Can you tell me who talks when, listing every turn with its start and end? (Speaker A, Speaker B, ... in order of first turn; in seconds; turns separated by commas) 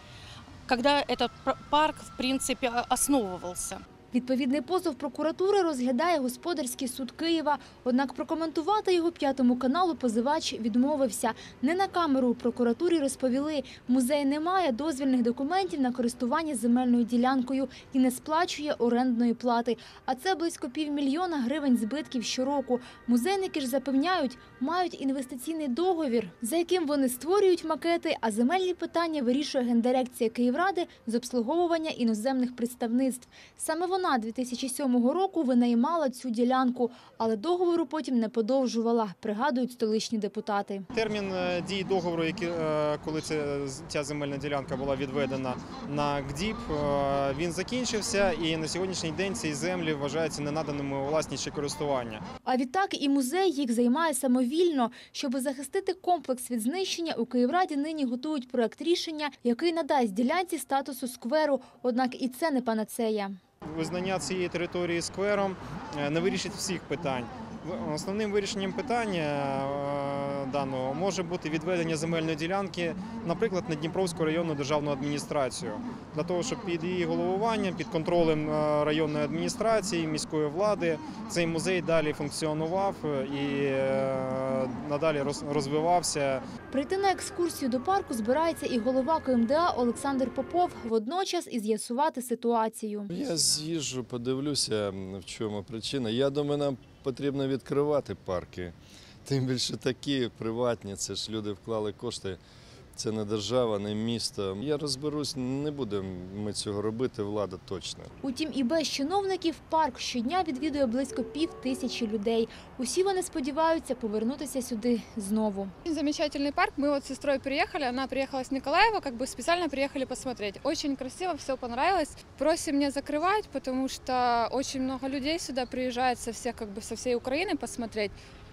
Speaker A: 0.7-3.8, Speaker B: 4.1-40.8, Speaker C: 40.9-52.2, Speaker B: 52.4-63.4, Speaker C: 63.7-86.4, Speaker B: 86.7-93.1, Speaker D: 93.1-102.4, Speaker D: 102.9-108.2, Speaker B: 108.2-115.7, Speaker E: 115.8-128.1